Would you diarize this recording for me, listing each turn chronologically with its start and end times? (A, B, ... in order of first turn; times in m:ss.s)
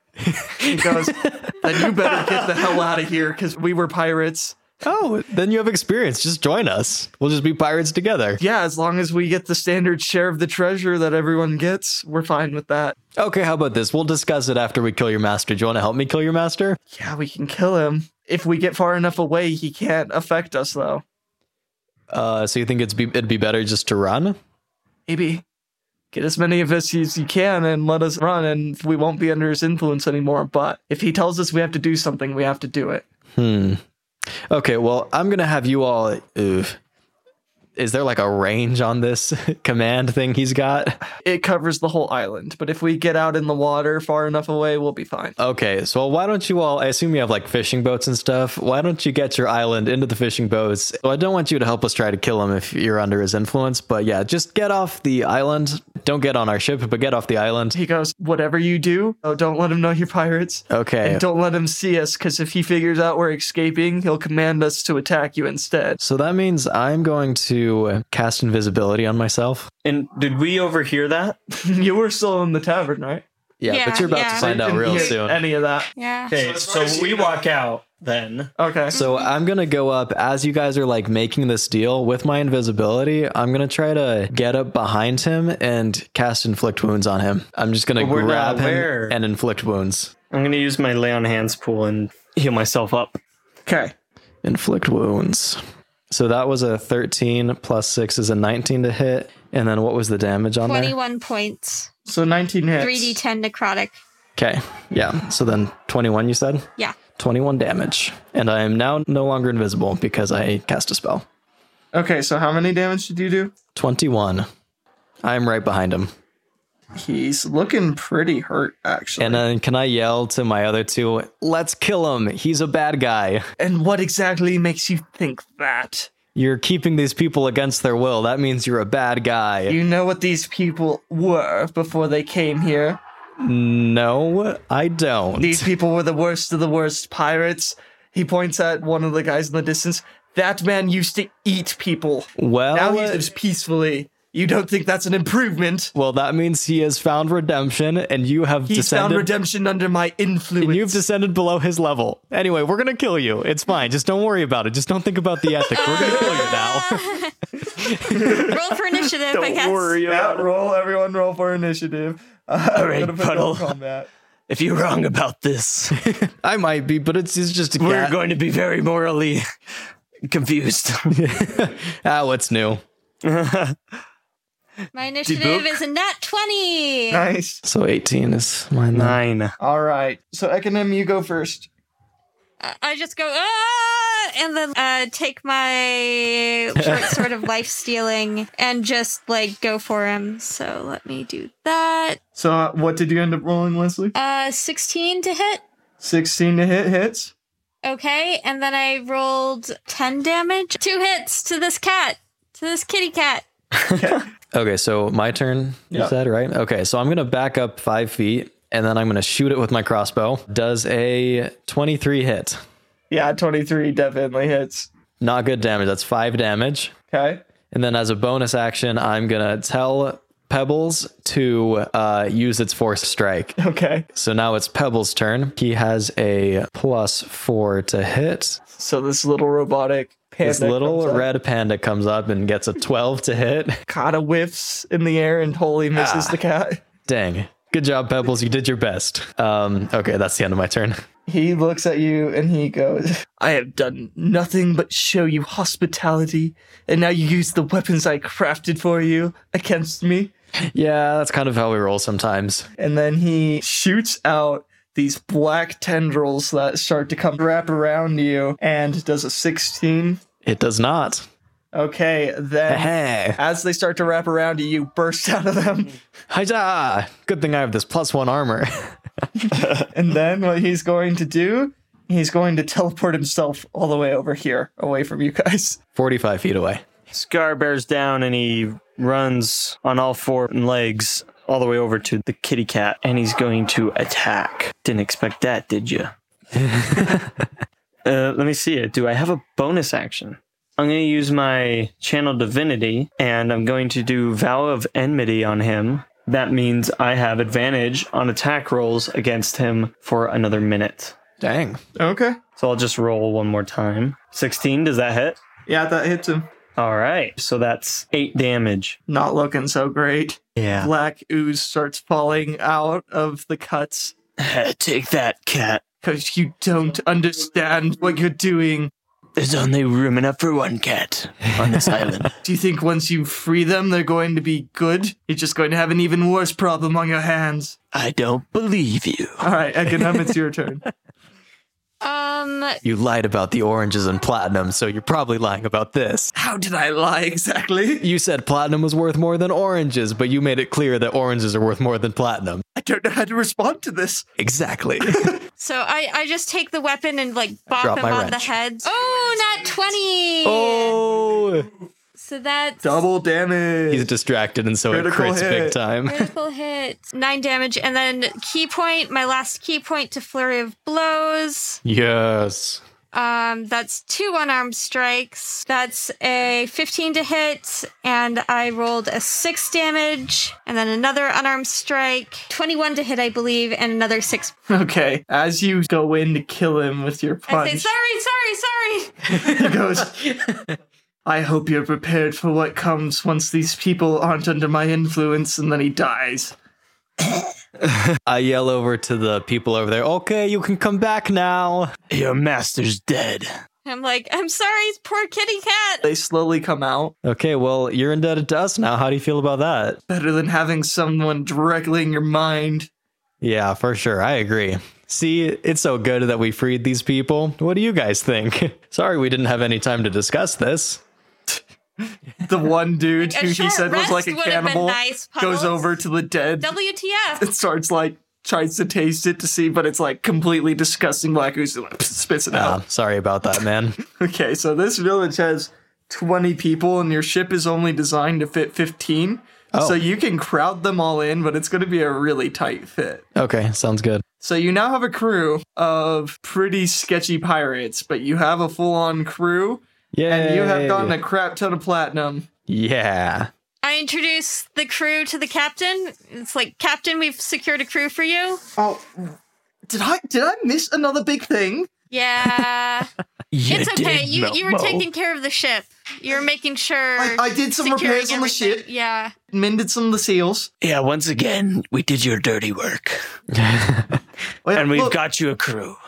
0:00.2-0:02.5 A
0:00.6-0:04.6 B
0:04.8-0:08.4 A
0:08.4-0:13.0 B
0:13.2-0:16.8 A
0:16.9-0:21.0 B
0:22.1-0:24.4 A
0:25.1-0:25.4 B
0:26.1-0:33.0 B
0:33.3-0:33.8 A
0:34.5-0:36.8 A
0:37.8-0:41.0 A
0:41.2-0:45.4 B
0:45.4-0:57.8 A
0:57.7-1:06.0 B
1:00.7-1:01.2 A
1:06.0-1:09.7 A
1:09.8-1:11.4 C
1:11.5-1:13.2 B
1:13.6-1:15.4 A
1:13.7-1:15.1 D
1:14.3-1:15.9 B
1:16.0-1:16.3 D
1:16.3-1:18.5 C
1:18.6-1:19.0 B
1:18.9-1:30.1 A
1:18.9-1:19.3 D
1:28.0-1:29.2 C
1:30.3-1:33.2 C
1:33.6-1:33.9 B
1:34.4-1:41.0 A
1:40.6-1:41.9 D
1:42.0-1:43.2 B
1:42.8-1:44.0 D
1:44.4-1:51.2 A
1:51.9-1:53.5 B
1:53.7-1:54.5 A
1:55.2-1:56.1 A
1:57.0-1:59.4 B
1:59.2-2:03.4 A
2:03.6-2:06.1 B
2:06.3-2:09.8 A
2:09.7-2:13.0 B
2:13.4-2:15.7 A
2:15.4-2:25.9 B
2:22.4-2:23.3 A
2:25.9-2:29.3 A
2:28.7-2:31.0 B
2:30.6-2:37.1 A
2:35.7-2:37.3 D
2:37.8-2:38.4 A
2:38.1-2:38.6 B
2:38.2-2:40.0 D
2:39.3-2:40.4 E
2:40.0-2:44.1 B
2:42.7-2:43.8 E
2:44.5-2:46.0 E
2:46.0-2:48.2 A
2:47.8-2:49.4 E
2:50.3-2:51.2 E
2:51.1-2:52.8 A
2:53.2-2:53.8 C
2:54.9-2:57.2 D
2:55.3-2:55.7 E
2:57.1-2:57.6 B
2:57.6-2:59.2 A
2:58.9-2:59.5 C
2:59.6-3:01.7 B
3:02.6-3:12.2 D
3:06.8-3:07.3 A
3:12.4-3:14.1 B
3:14.1-3:15.6 D
3:16.0-3:17.3 B
3:17.8-3:23.4 D
3:24.0-3:24.2 B
3:24.5-3:32.6 A
3:33.1-3:34.9 B
3:35.2-3:36.9 A
3:37.1-3:37.4 B
3:37.7-3:43.6 A
3:43.6-3:44.1 B
3:44.1-3:48.6 A
3:48.7-3:51.3 B
3:50.4-3:53.8 A
3:53.9-3:56.8 B
3:55.9-3:56.4 A
3:57.1-4:01.0 A
4:01.3-4:10.3 B
4:10.7-4:12.7 A
4:12.8-4:20.2 B
4:20.4-4:21.2 A
4:21.7-4:26.0 B
4:22.7-4:23.4 A
4:26.3-4:29.0 A
4:29.9-4:35.8 B
4:36.0-4:36.8 A
4:37.1-4:46.1 C
4:44.0-4:44.7 E
4:46.5-4:47.4 A
4:48.0-5:01.2 C
5:01.4-5:01.8 A
5:02.0-5:02.4 B
5:02.6-5:05.4 C
5:05.7-5:06.5 B
5:06.8-5:09.0 C
5:09.1-5:14.1 B
5:14.4-5:15.8 E
5:16.0-5:18.9 B
5:19.4-5:22.3 E
5:21.6-5:22.3 A
5:22.4-5:27.8 B
5:27.9-5:29.4 E
5:29.4-5:30.8 B
5:32.0-5:32.8 D
5:32.8-5:36.3 A
5:36.3-5:38.0 B
5:38.0-5:42.6 A
5:42.8-5:44.2 B
5:44.4-5:45.3 A
5:45.1-5:45.4 B
5:45.6-5:51.0 D
5:47.8-5:48.5 A
5:50.4-5:51.7 A
5:52.2-5:53.0 D
5:52.8-5:54.1 B
5:53.9-5:56.3 A
5:54.9-5:55.8 B
5:56.0-6:01.8 D
6:01.8-6:02.8 A
6:03.1-6:14.5 D
6:14.7-6:17.9 B
6:17.5-6:19.4 D
6:19.3-6:20.2 B
6:21.2-6:26.5 B
6:28.2-6:31.9 A
6:32.1-6:33.5 E
6:33.8-6:36.0 D
6:36.0-6:37.1 B
6:37.2-6:40.0 A
6:40.1-6:42.9 B
6:43.4-6:51.0 A
6:52.4-6:56.7 B
6:53.2-6:56.0 D
6:56.6-6:57.4 D
6:57.4-7:02.8 B
7:02.5-7:04.0 A
7:04.2-7:13.2 B
7:09.7-7:10.0 A
7:13.3-7:14.2 A
7:14.4-7:22.5 B
7:20.1-7:21.1 A
7:22.7-7:23.5 A
7:23.8-7:28.6 D
7:28.8-7:29.4 B
7:29.9-7:31.9 B
7:32.1-7:33.1 D
7:33.5-7:35.0 E
7:33.7-7:39.3 D
7:37.2-7:38.8 B
7:39.5-7:40.7 B
7:40.8-7:43.2 E
7:43.5-7:44.2 A
7:44.6-7:45.2 B
7:44.7-7:46.0 E